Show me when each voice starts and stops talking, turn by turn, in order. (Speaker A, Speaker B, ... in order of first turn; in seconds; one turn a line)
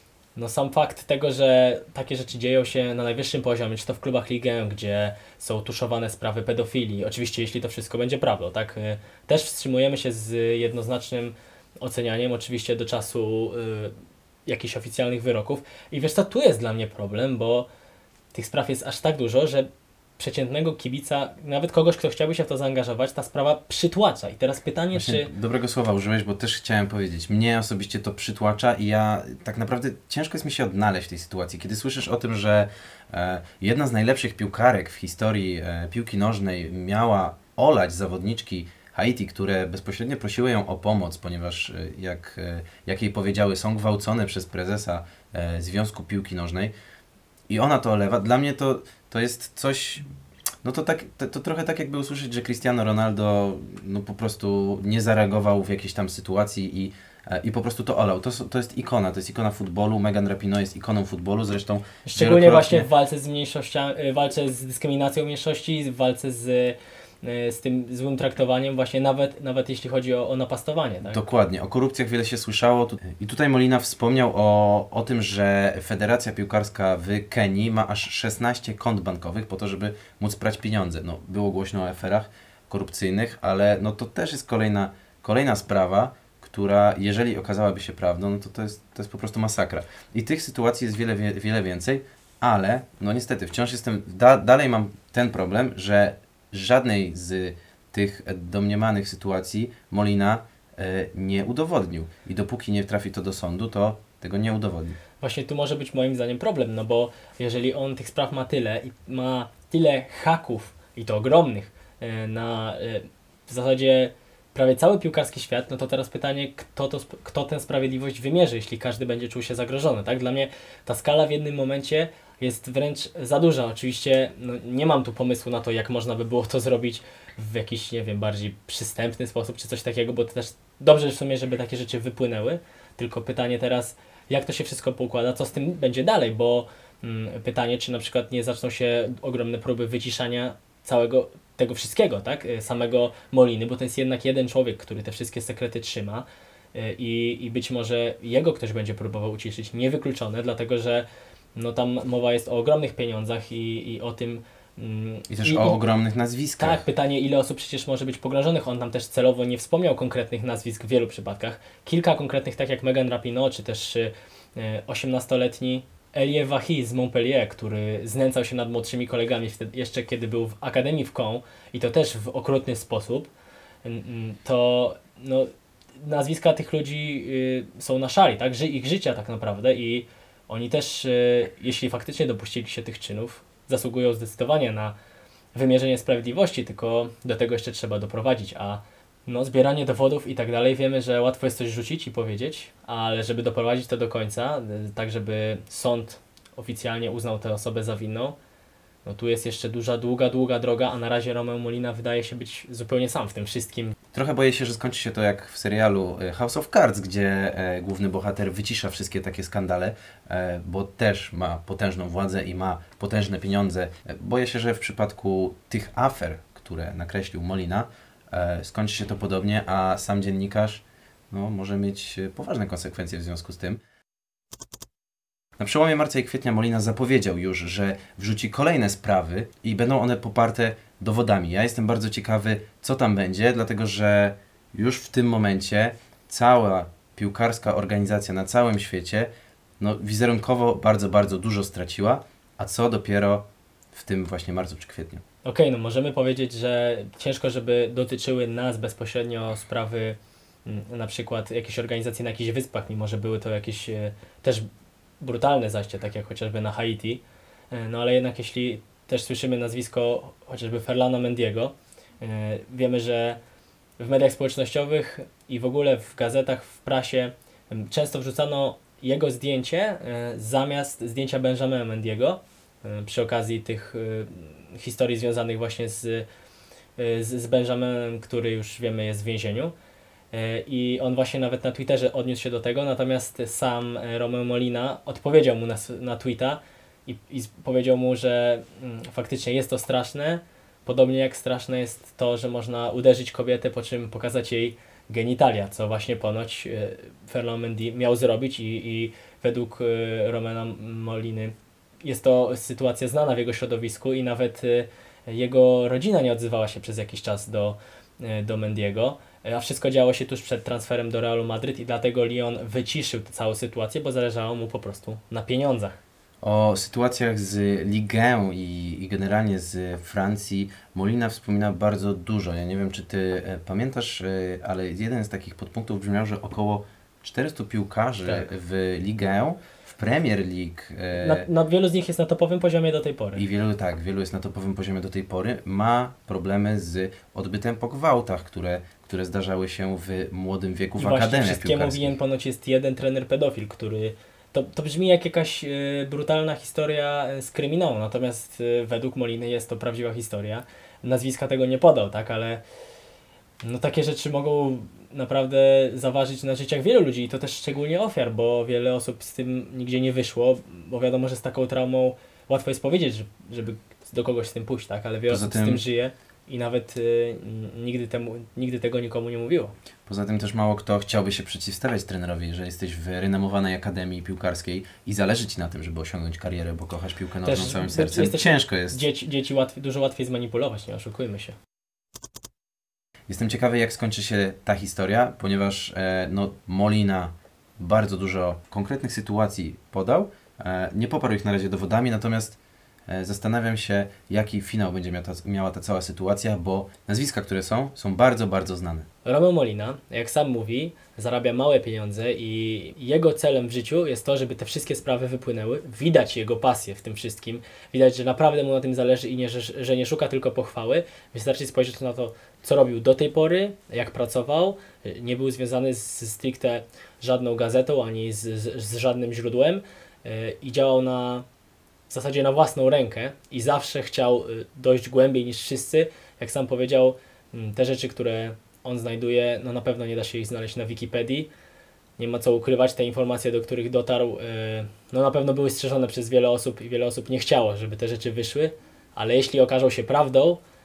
Speaker A: 0.3-13.9
Speaker A: 14.4-17.7
Speaker A: 18.3-25.3
Speaker B: 24.9-46.7
Speaker B: 47.5-50.0
Speaker B: 50.6-62.9
Speaker A: 62.0-71.2
Speaker B: 71.0-105.0
Speaker A: 105.2-155.8
Speaker B: 155.3-156.8
Speaker A: 156.6-173.3
Speaker A: 173.8-184.9
Speaker A: 185.5-198.3
Speaker A: 199.0-203.9
Speaker B: 204.1-223.8
Speaker B: 225.6-245.2
Speaker A: 245.4-254.7
Speaker A: 255.2-263.4
Speaker A: 264.0-276.2
Speaker A: 277.0-279.7
Speaker A: 280.3-316.0
Speaker B: 316.4-331.5
Speaker A: 328.2-328.5
Speaker A: 331.1-333.4
Speaker B: 333.3-342.2
Speaker A: 341.0-352.6
Speaker A: 353.6-369.7
Speaker B: 365.3-365.8
Speaker B: 370.1-379.0
Speaker A: 377.4-381.6
Speaker B: 383.3-399.1
Speaker A: 399.2-421.4
Speaker A: 422.1-431.5
Speaker A: 432.2-440.6